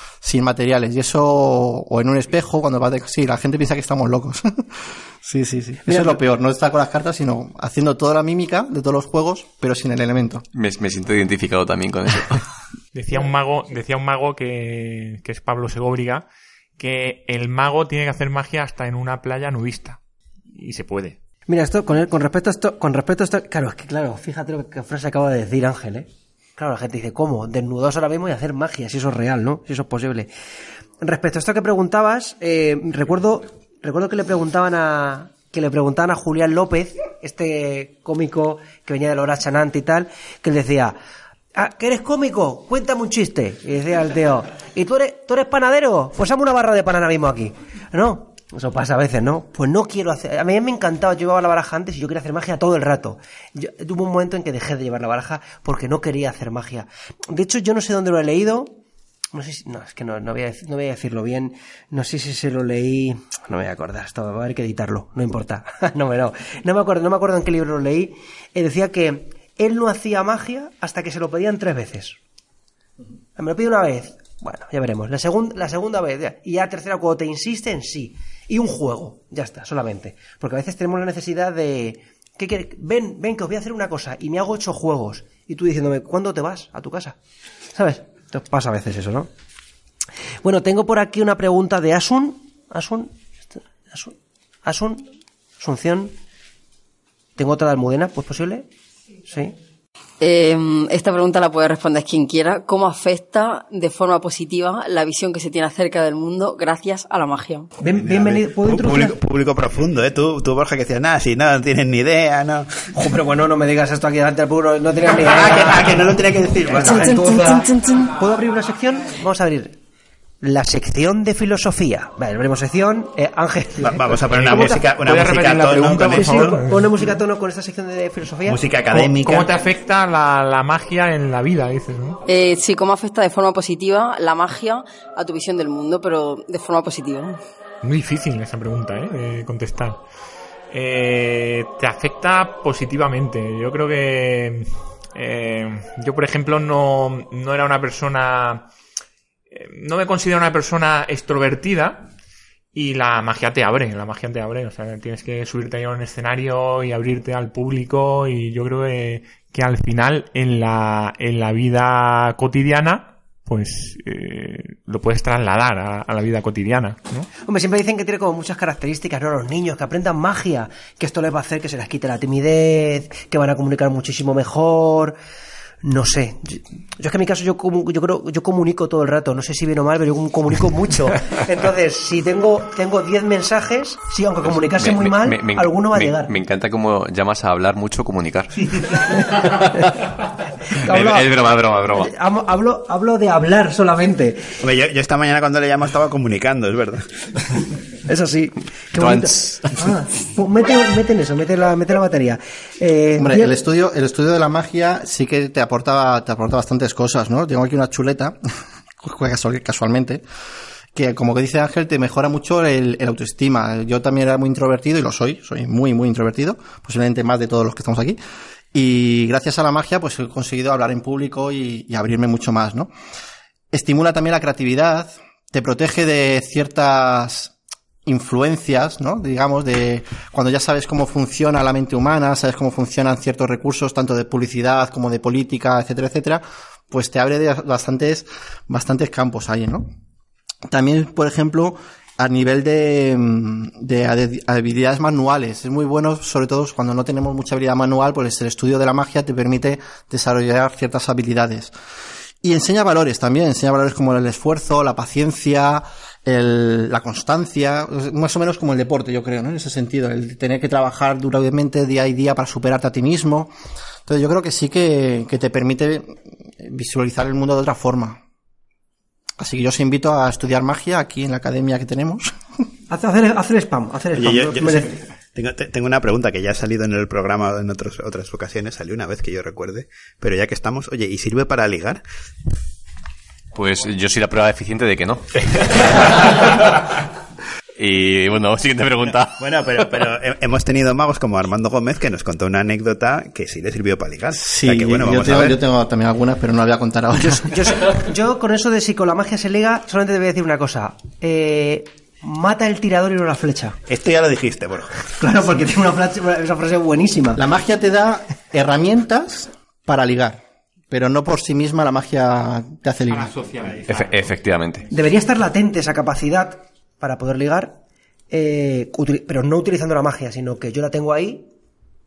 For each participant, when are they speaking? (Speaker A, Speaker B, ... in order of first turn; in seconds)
Speaker A: 0.2-10.4, 203.2-208.4, 209.0-210.2, 210.9-218.2, 218.7-222.9, 223.7-227.5, 228.1-239.9, 240.7-251.7, 252.4-263.5, 264.1-268.2, 269.4-272.3, 294.4-297.5, 307.4-313.4
Speaker B: 5.9-6.2, 21.5-30.3, 31.0-41.0, 41.6-58.7, 59.3-72.2, 73.4-87.2, 87.7-89.3, 90.4-94.1, 94.7-96.1, 97.4-98.7, 99.3-99.5, 107.8-109.2, 112.9-116.2, 116.8-119.8, 120.4-124.8, 126.2-128.6, 167.4-175.2, 175.8-186.3, 190.8-191.3, 191.9-194.6, 198.1-203.5, 272.9-275.0, 297.1-303.8, 305.1-307.4, 314.9-317.8, 318.3-321.5
Speaker C: 10.5-12.4, 184.5-188.8, 189.3-189.9, 190.9-192.1, 198.9-200.0, 283.5-286.8, 287.8-289.9, 313.9-314.9
Speaker D: 12.9-16.3, 16.8-20.0, 20.5-21.2, 124.3-126.8, 128.9-132.2, 137.8-140.0, 140.7-148.7, 149.5-152.1, 152.7-167.3, 313.1-314.3
Speaker E: 100.2-107.7, 116.9-118.1, 132.3-137.4
Speaker F: 107.9-112.9, 115.1-117.1, 123.8-126.6, 128.5-129.5, 194.6-197.1, 274.1-282.0, 289.4-295.6, 303.9-305.1